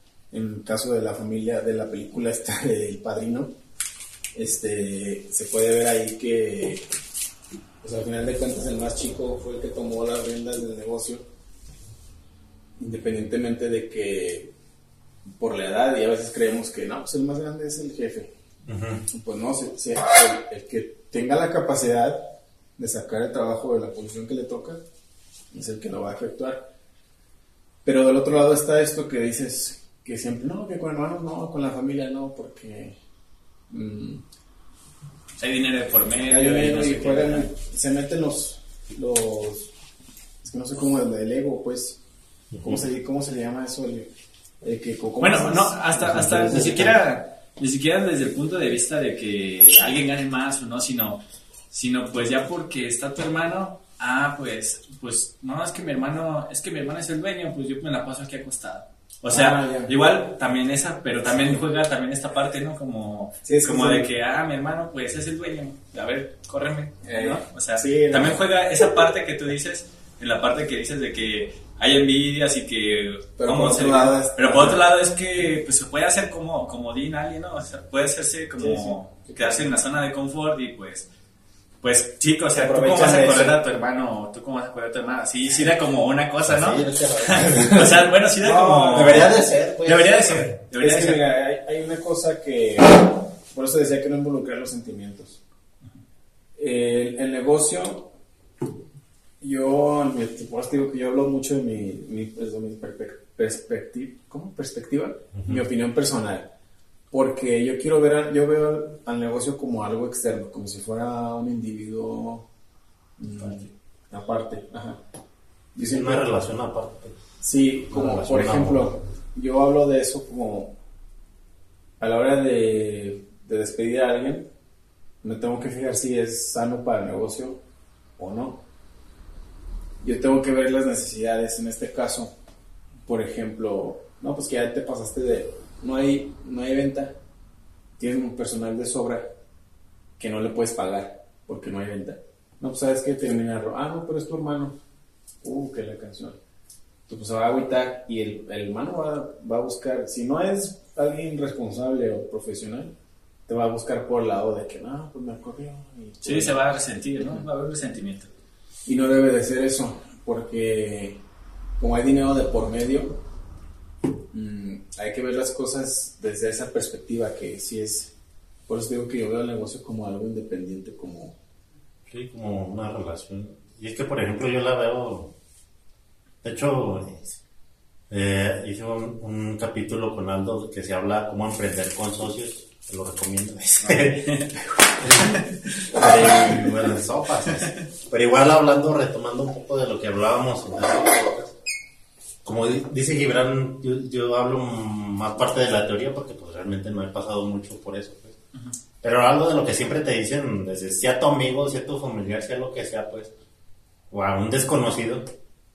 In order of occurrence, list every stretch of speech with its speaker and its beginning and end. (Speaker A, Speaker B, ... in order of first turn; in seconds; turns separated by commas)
Speaker A: 0.3-3.5, Speaker A: 4.3-6.9, Speaker A: 7.8-11.2, Speaker A: 12.8-14.5, Speaker A: 15.4-18.3, Speaker B: 18.7-19.0, Speaker A: 19.1-24.8, Speaker A: 25.5-26.7, Speaker A: 27.8-33.0, Speaker A: 33.7-34.2, Speaker C: 35.4-37.5, Speaker A: 36.3-39.7, Speaker A: 40.4-42.0, Speaker A: 42.6-44.1, Speaker A: 44.6-46.9, Speaker C: 45.2-81.1, Speaker B: 46.1-46.9, Speaker A: 59.3-59.9, Speaker A: 63.4-64.1, Speaker A: 67.0-69.1, Speaker A: 73.4-74.9, Speaker A: 78.6-79.7, Speaker C: 81.8-91.2, Speaker A: 82.5-83.7, Speaker B: 86.4-88.0, Speaker A: 88.4-89.5, Speaker B: 88.8-90.5, Speaker A: 90.8-95.4, Speaker A: 96.5-98.1, Speaker A: 99.4-106.5, Speaker B: 105.3-105.6, Speaker A: 107.1-112.5, Speaker A: 113.2-115.0, Speaker A: 115.7-116.3, Speaker B: 115.9-117.2, Speaker A: 117.4-120.8, Speaker B: 117.9-118.9, Speaker A: 122.0-124.5, Speaker A: 125.2-127.6, Speaker A: 128.2-128.6, Speaker A: 130.0-132.3, Speaker A: 133.1-137.2, Speaker A: 138.0-139.3, Speaker A: 140.2-144.8, Speaker A: 145.4-146.4, Speaker A: 147.1-152.9, Speaker A: 153.5-156.6, Speaker C: 156.2-158.3, Speaker A: 158.8-161.2, Speaker A: 161.8-163.2, Speaker A: 164.3-168.1, Speaker A: 168.7-171.3, Speaker B: 172.1-175.3, Speaker B: 176.4-177.4, Speaker B: 178.1-184.3, Speaker C: 183.8-186.6, Speaker B: 185.0-191.5, Speaker B: 192.4-198.3, Speaker B: 199.0-203.3, Speaker B: 204.1-205.3